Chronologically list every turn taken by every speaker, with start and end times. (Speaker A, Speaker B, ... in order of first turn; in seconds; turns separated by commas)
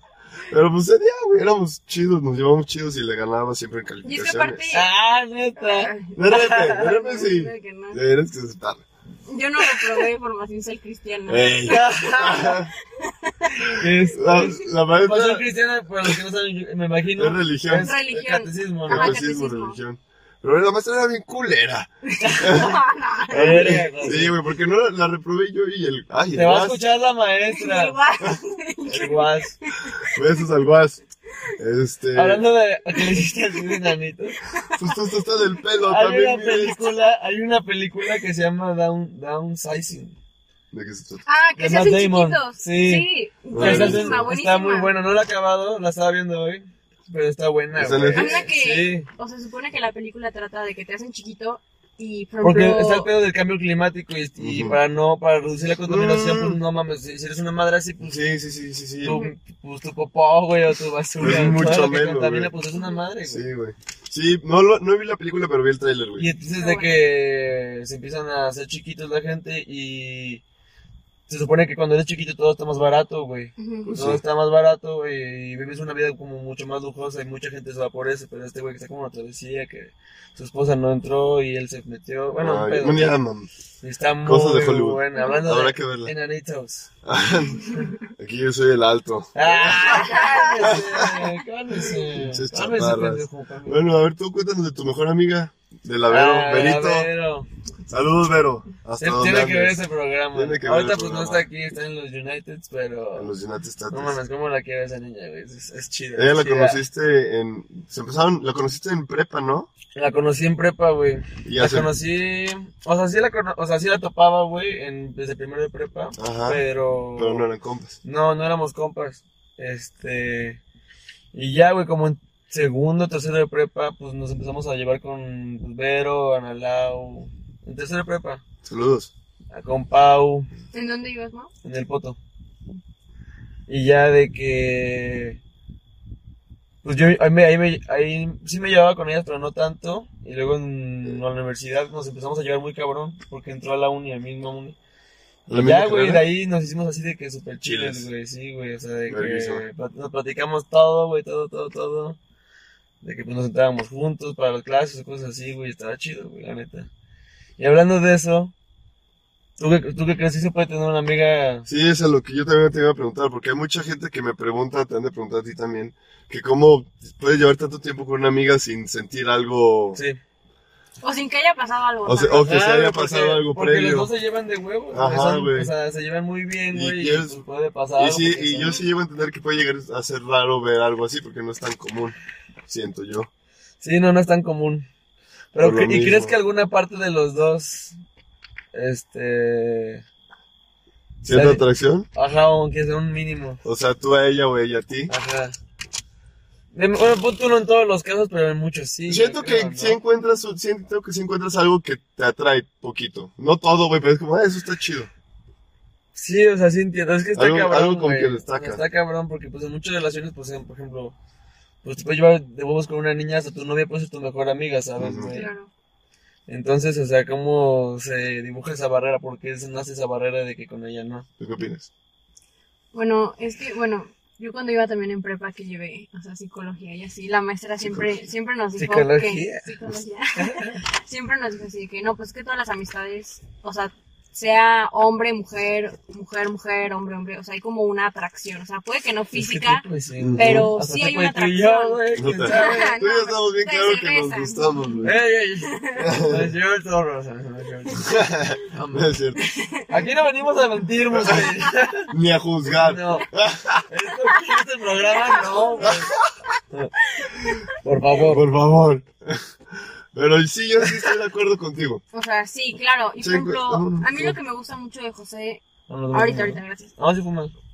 Speaker A: 0.5-4.7, Speaker B: 4.0-4.9, Speaker C: 4.7-6.9, Speaker B: 5.6-8.0, Speaker A: 6.2-8.8, Speaker B: 9.3-13.8, Speaker C: 9.6-10.1, Speaker A: 11.3-12.7, Speaker C: 11.7-12.6, Speaker C: 13.6-19.1, Speaker A: 14.1-15.4, Speaker A: 17.2-17.9, Speaker B: 17.7-19.8, Speaker A: 18.9-22.8, Speaker B: 22.1-24.0, Speaker C: 22.2-22.7, Speaker C: 23.3-24.3, Speaker A: 23.3-26.8, Speaker C: 26.3-28.0, Speaker B: 27.5-30.2, Speaker C: 28.9-29.6, Speaker A: 30.0-31.0, Speaker A: 31.6-32.4, Speaker C: 32.1-34.4, Speaker B: 33.0-33.9, Speaker B: 34.5-35.0, Speaker A: 34.7-36.9, Speaker C: 35.8-40.1, Speaker A: 40.7-41.2, Speaker B: 41.2-44.9, Speaker C: 41.6-49.1, Speaker A: 43.5-44.2, Speaker A: 47.7-48.4, Speaker B: 48.1-53.1, Speaker C: 52.4-58.2, Speaker A: 54.4-54.8, Speaker A: 55.9-56.6, Speaker A: 58.0-59.2, Speaker C: 59.0-63.4, Speaker B: 59.0-59.3, Speaker A: 61.2-62.5, Speaker A: 63.2-66.3, Speaker C: 66.2-70.4, Speaker B: 66.5-67.0, Speaker C: 71.3-83.2, Speaker B: 73.6-73.9, Speaker A: 73.8-74.2, Speaker A: 82.4-83.5, Speaker C: 83.8-86.9, Speaker A: 84.2-86.1, Speaker B: 85.2-85.5, Speaker A: 87.0-91.2, Speaker B: 87.6-87.9, Speaker C: 89.3-93.8, Speaker B: 89.9-90.8, Speaker A: 91.9-97.1, Speaker C: 96.1-97.5, Speaker A: 97.9-99.8, Speaker C: 99.0-103.3, Speaker A: 100.3-101.4, Speaker A: 103.1-104.2, Speaker C: 103.9-106.8, Speaker A: 106.2-109.7, Speaker C: 109.9-117.4, Speaker A: 111.4-111.9, Speaker A: 116.2-116.6, Speaker A: 117.2-118.0, Speaker C: 118.0-120.6, Speaker C: 121.3-128.4, Speaker A: 128.6-129.1, Speaker C: 129.5-130.5, Speaker B: 130.7-131.5, Speaker C: 131.6-132.2, Speaker C: 133.7-135.4, Speaker C: 136.8-144.8, Speaker A: 145.5-146.2, Speaker C: 145.5-152.2, Speaker A: 147.6-148.1, Speaker A: 149.1-149.6, Speaker C: 153.0-156.9, Speaker C: 157.6-158.5, Speaker C: 159.6-161.7, Speaker A: 161.7-170.0, Speaker B: 171.0-172.5, Speaker A: 172.1-174.1, Speaker C: 172.3-178.8, Speaker A: 174.9-175.7, Speaker A: 176.7-177.4, Speaker A: 178.0-182.2, Speaker A: 182.7-183.3, Speaker C: 183.8-184.9, Speaker C: 185.5-187.9, Speaker A: 185.6-186.3, Speaker C: 188.7-190.0, Speaker A: 191.2-192.1, Speaker C: 191.3-193.6, Speaker A: 193.6-195.1, Speaker C: 195.1-195.6, Speaker C: 196.7-200.0, Speaker A: 199.1-205.1, Speaker C: 206.1-211.1, Speaker A: 207.3-208.8, Speaker C: 211.8-215.5, Speaker A: 215.0-215.3, Speaker B: 215.3-215.7, Speaker C: 216.5-221.2, Speaker A: 221.4-221.9, Speaker B: 222.9-239.8, Speaker A: 227.8-228.1, Speaker C: 228.8-229.7, Speaker C: 230.4-230.8, Speaker C: 239.3-243.0, Speaker A: 240.2-240.7, Speaker B: 240.4-245.1, Speaker A: 242.1-245.1, Speaker C: 245.0-248.1, Speaker B: 245.6-246.1, Speaker A: 246.0-246.5, Speaker A: 248.0-249.4, Speaker C: 248.6-249.1, Speaker B: 249.4-249.9, Speaker C: 249.9-252.1, Speaker A: 251.1-251.5, Speaker A: 252.1-253.8, Speaker C: 252.7-253.3, Speaker C: 253.9-256.1, Speaker B: 255.0-256.3, Speaker A: 255.8-256.1, Speaker B: 257.0-257.8, Speaker C: 257.7-258.5, Speaker A: 258.1-262.0, Speaker B: 262.1-266.9, Speaker A: 263.2-264.4, Speaker C: 265.9-267.5